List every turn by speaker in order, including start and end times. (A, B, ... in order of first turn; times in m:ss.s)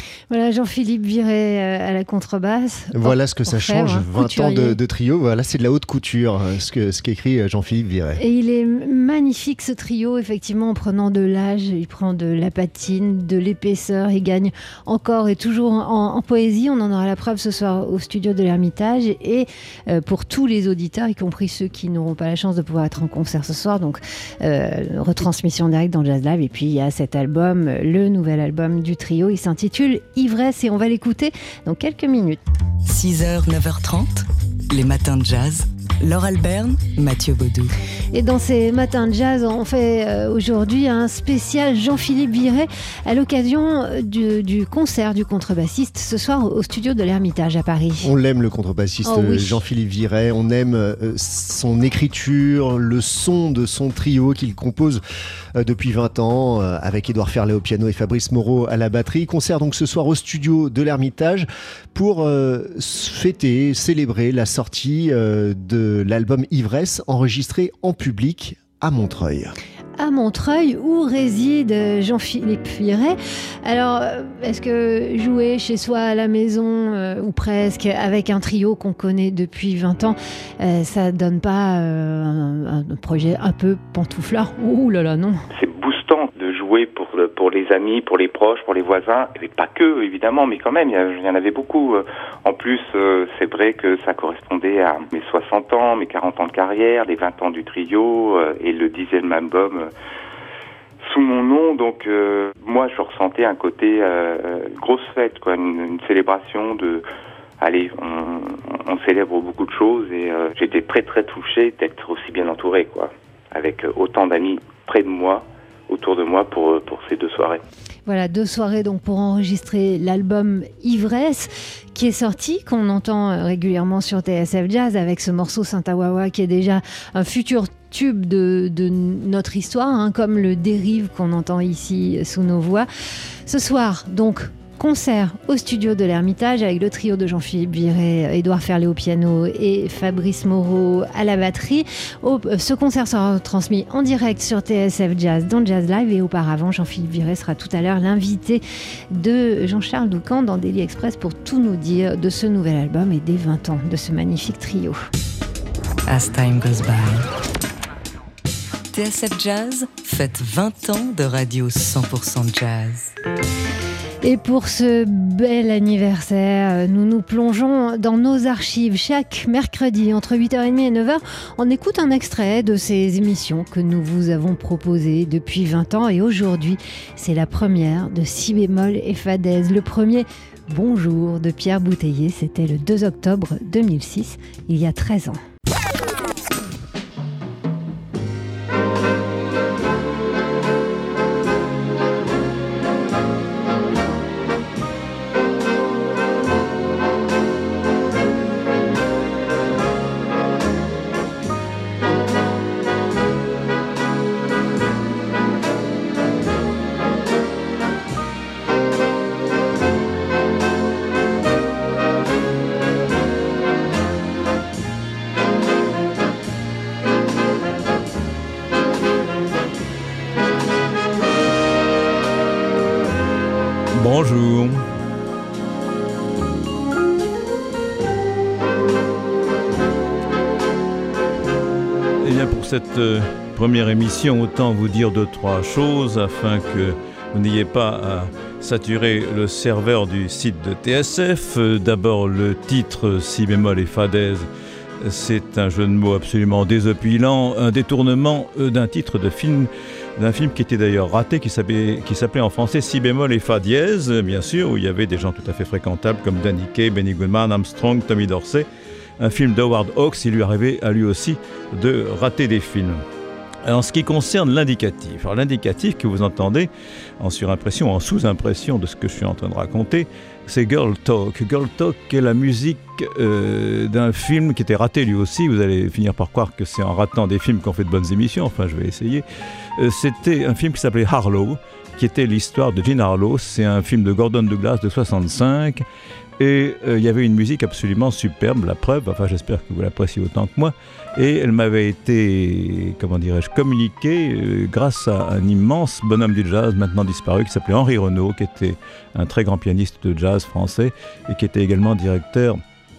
0:00.3-0:04.8 A
0:02.9-0:08.2 B
0:08.2-0:32.4 A
0:32.8-0:37.7 C
0:38.1-0:48.1 A
0:48.0-0:55.0 B
0:49.0-0:49.6 A
0:55.5-1:09.5 B
1:10.0-1:25.4 A
1:25.5-1:39.9 D
1:41.1-1:47.0 D
1:47.6-1:57.6 D
1:58.0-2:12.9 A
2:13.5-2:35.0 A
2:36.1-2:37.2 C
2:38.9-2:43.1 C
2:44.2-3:05.4 A
3:43.9-3:44.8 E
3:52.2-4:04.5 E
4:05.0-4:18.7 E
4:19.2-4:23.0 E
4:23.6-4:26.7 E
4:27.2-4:39.2 E
4:39.8-4:45.8 E
4:46.4-5:02.6 E